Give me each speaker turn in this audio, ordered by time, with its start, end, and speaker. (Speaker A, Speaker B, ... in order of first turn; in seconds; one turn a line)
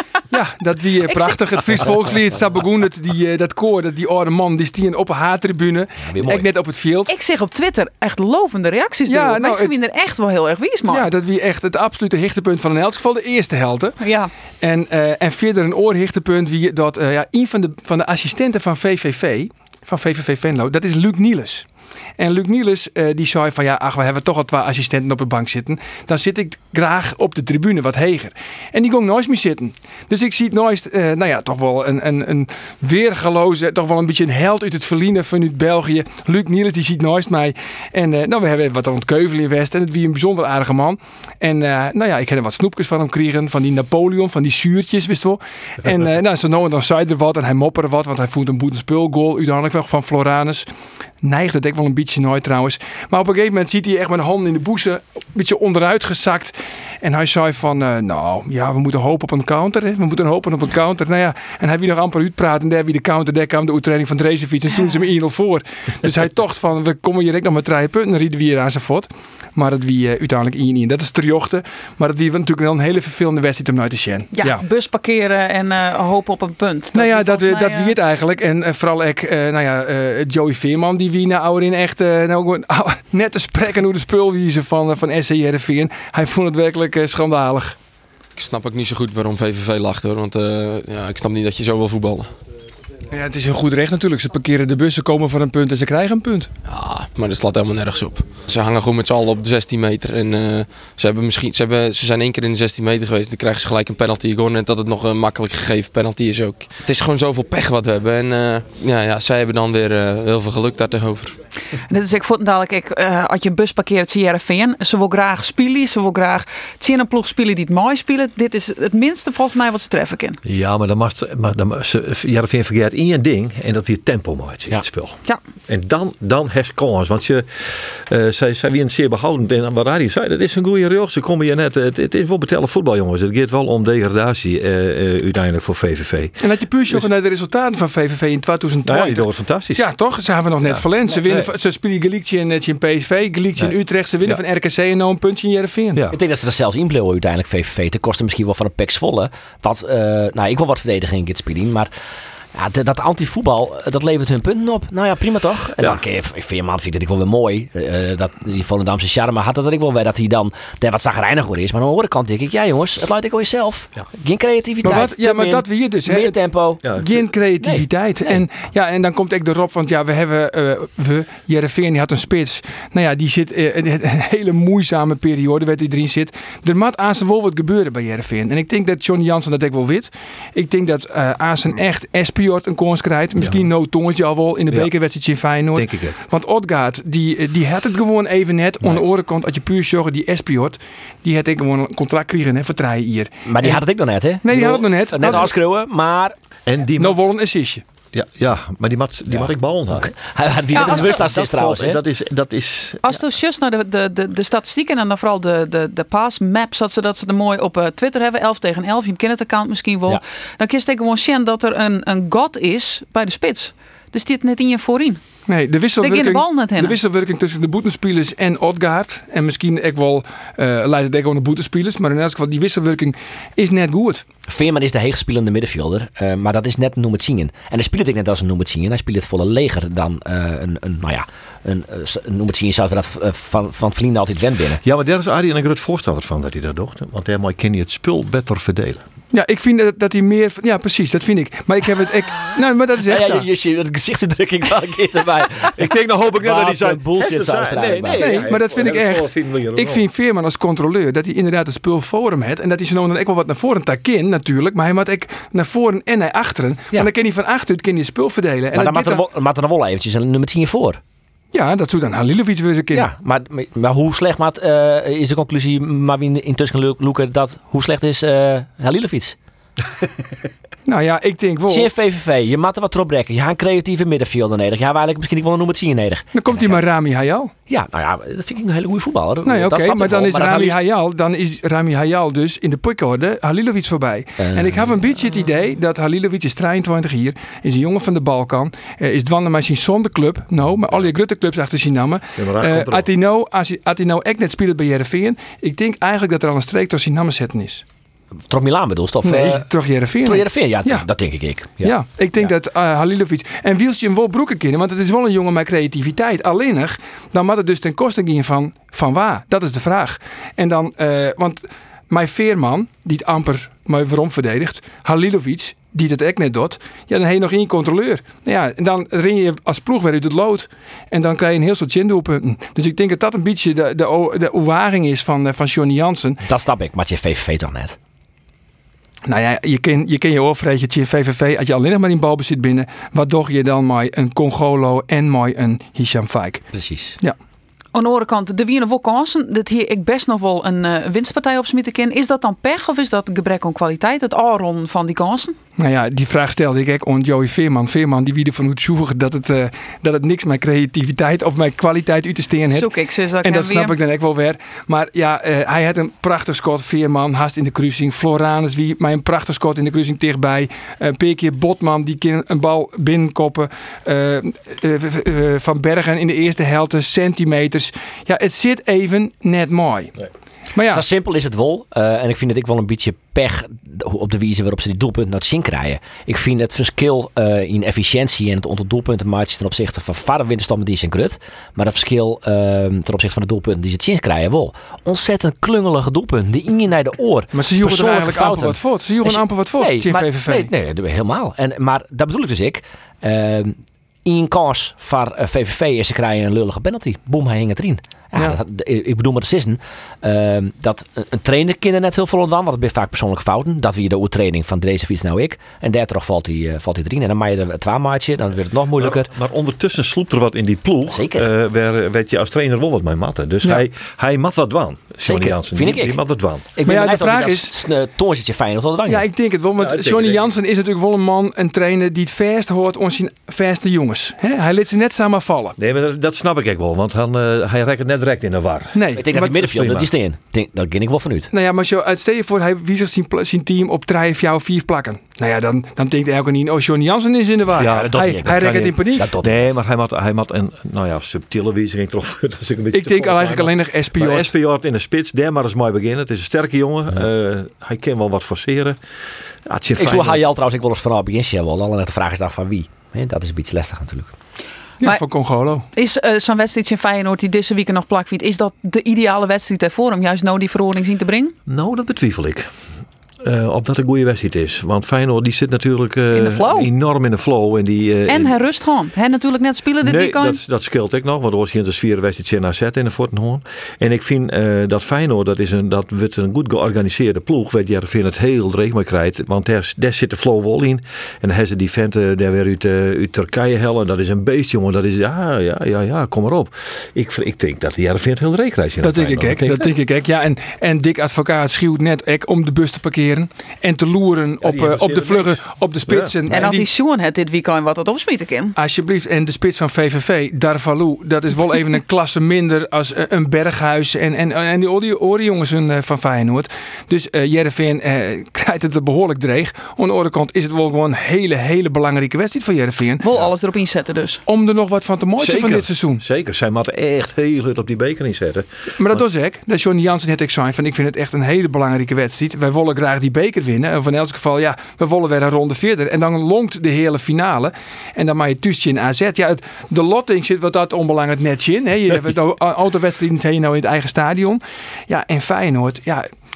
Speaker A: 0.3-7.1
Speaker B: 1.1-2.0
Speaker C: 6.0-6.5
Speaker B: 7.1-11.1
Speaker A: 9.1-9.8
Speaker A: 10.9-14.0
Speaker B: 14.0-14.3
Speaker A: 14.6-50.7
Speaker A: 51.2-74.6
Speaker B: 74.3-77.9
Speaker A: 76.9-87.8
Speaker D: 88.3-92.4
Speaker A: 93.1-96.5
Speaker D: 96.7-111.4
Speaker B: 111.8-120.4
Speaker E: 120.4-137.1
Speaker A: 136.4-146.0
Speaker E: 138.8-139.8
Speaker E: 140.6-141.5
Speaker E: 143.6-144.4
Speaker C: 146.1-151.9
Speaker C: 152.5-166.8
Speaker A: 164.8-193.8
Speaker E: 166.8-167.3
Speaker C: 167.6-168.4
Speaker E: 183.3-183.7
Speaker E: 185.7-186.2
Speaker C: 193.5-196.3
Speaker A: 194.4-195.5
Speaker E: 195.2-195.5
Speaker E: 196.7-197.2
Speaker A: 197.0-197.8
Speaker E: 198.1-200.1
Speaker C: 199.3-202.0
Speaker E: 200.7-203.2
Speaker B: 200.8-201.1
Speaker B: 203.0-215.2
Speaker A: 215.5-224.2
Speaker B: 216.0-217.0
Speaker C: 224.5-234.8
Speaker E: 234.8-239.0
Speaker A: 239.3-243.5
Speaker C: 243.0-245.8
Speaker E: 245.7-250.0
Speaker C: 246.4-248.4
Speaker A: 248.2-259.2
Speaker C: 258.7-261.0
Speaker A: 261.5-263.1
Speaker C: 262.9-269.4
Speaker A: 270.9-271.9
Speaker C: 271.7-276.8
Speaker A: 276.4-277.5
Speaker C: 277.7-280.8
Speaker A: 279.4-297.8
Speaker C: 284.4-285.2
Speaker E: 292.4-293.1
Speaker C: 298.5-299.7
Speaker A: 299.2-301.1
Speaker C: 300.2-302.5
Speaker A: 301.8-326.4
Speaker C: 326.4-328.0
Speaker A: 329.2-336.7
Speaker C: 336.7-337.2
Speaker B: 337.9-345.6
Speaker A: 345.8-370.1
Speaker B: 352.7-353.9
Speaker A: 370.8-371.0
Speaker C: 370.9-409.3
Speaker A: 387.5-390.7
Speaker E: 409.0-416.6
Speaker C: 411.1-411.5
Speaker C: 415.2-416.2
Speaker C: 416.8-419.3
Speaker A: 416.8-417.7
Speaker A: 419.1-425.8
Speaker E: 419.8-420.5
Speaker E: 425.8-430.1
Speaker A: 428.9-429.6
Speaker C: 429.2-431.5
Speaker A: 431.5-439.3
Speaker E: 437.8-449.0
Speaker C: 437.8-439.8
Speaker A: 442.9-444.5
Speaker E: 449.6-450.4
Speaker C: 450.0-454.3
Speaker A: 455.0-455.9
Speaker B: 455.9-461.5
Speaker E: 461.7-462.7
Speaker E: 463.4-468.6
Speaker B: 466.3-466.9
Speaker B: 468.3-470.6
Speaker E: 470.0-489.9
Speaker A: 489.0-496.9
Speaker E: 494.6-496.4
Speaker B: 496.5-498.7
Speaker A: 498.8-513.2
Speaker B: 513.2-514.4
Speaker A: 514.5-516.2
Speaker E: 515.4-519.2
Speaker A: 519.0-536.3